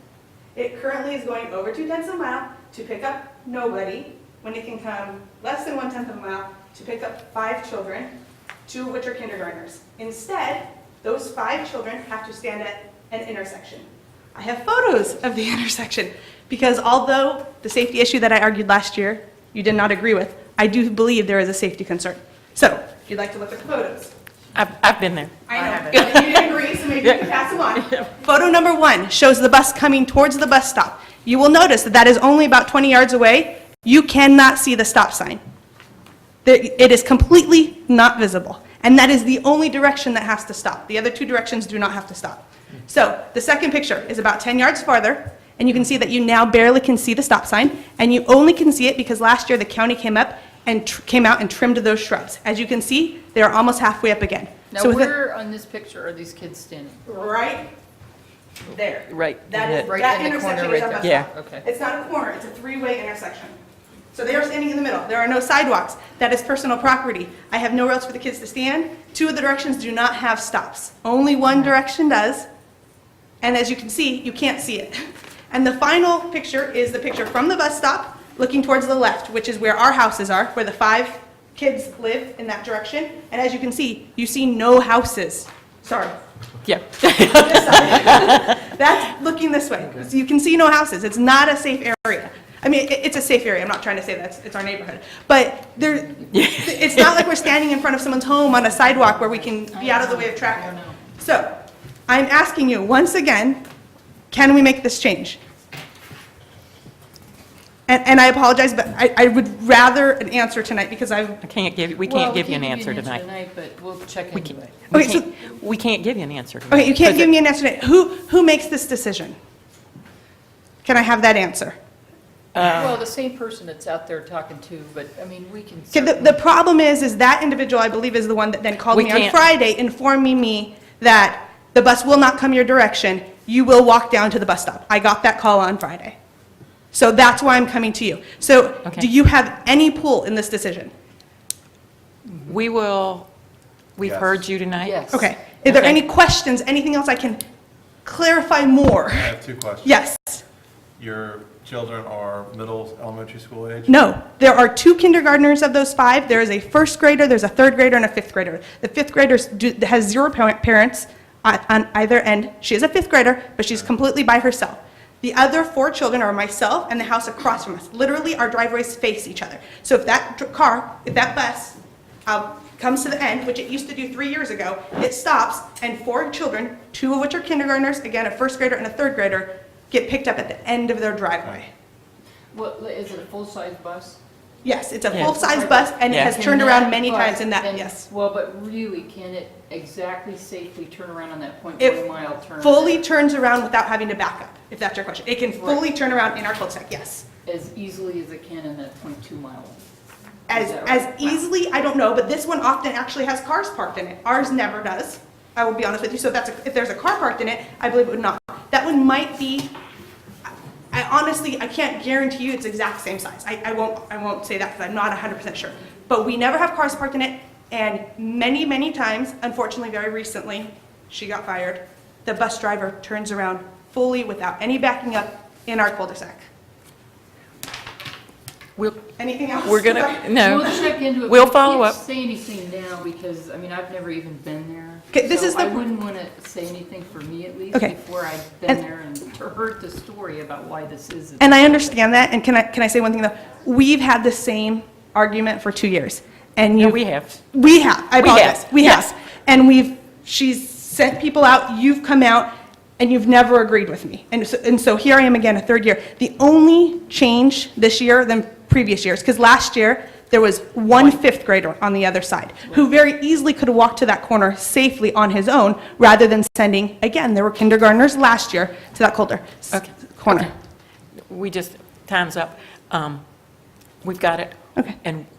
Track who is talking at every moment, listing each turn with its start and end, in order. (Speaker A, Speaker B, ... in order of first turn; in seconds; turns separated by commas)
Speaker A: 0.5-8.1, Speaker A: 8.7-24.1, Speaker B: 24.5-28.0, Speaker A: 25.5-35.4, Speaker A: 36.4-55.1, Speaker C: 54.7-57.0, Speaker A: 57.0-57.7, Speaker A: 58.7-63.5, Speaker B: 59.1-59.9, Speaker C: 59.7-61.6, Speaker B: 61.0-61.3, Speaker A: 64.1-72.5, Speaker A: 73.4-86.2, Speaker B: 86.6-88.6, Speaker A: 87.1-103.6, Speaker B: 96.3-97.2, Speaker C: 98.4-101.0, Speaker A: 104.3-105.4, Speaker A: 107.9-111.4, Speaker B: 111.4-113.2, Speaker C: 112.0-114.8, Speaker B: 114.3-117.3, Speaker A: 114.9-115.2, Speaker A: 116.7-119.3, Speaker A: 120.8-121.8, Speaker B: 122.5-123.0, Speaker C: 122.6-126.4, Speaker A: 125.9-136.2, Speaker B: 128.9-129.4, Speaker A: 136.9-140.9, Speaker B: 142.4-143.3, Speaker B: 144.0-146.0, Speaker D: 144.0-144.4, Speaker C: 144.8-145.2, Speaker A: 145.1-147.4, Speaker A: 148.0-150.4, Speaker D: 149.2-149.9, Speaker D: 151.0-153.9, Speaker A: 153.9-181.7, Speaker C: 182.5-184.2, Speaker A: 184.6-188.1, Speaker C: 185.2-193.0, Speaker B: 186.1-186.4, Speaker A: 191.8-192.0, Speaker A: 192.6-197.2, Speaker C: 195.6-195.9, Speaker C: 197.4-199.8, Speaker A: 200.5-209.7, Speaker C: 200.5-201.4, Speaker A: 210.9-226.5, Speaker B: 228.8-229.0, Speaker A: 229.2-230.8, Speaker B: 229.6-232.0, Speaker C: 230.4-242.0, Speaker A: 235.1-235.9, Speaker A: 241.4-270.5, Speaker B: 246.8-247.4, Speaker B: 248.2-249.0, Speaker B: 269.7-270.5, Speaker B: 271.3-273.2, Speaker B: 274.0-275.3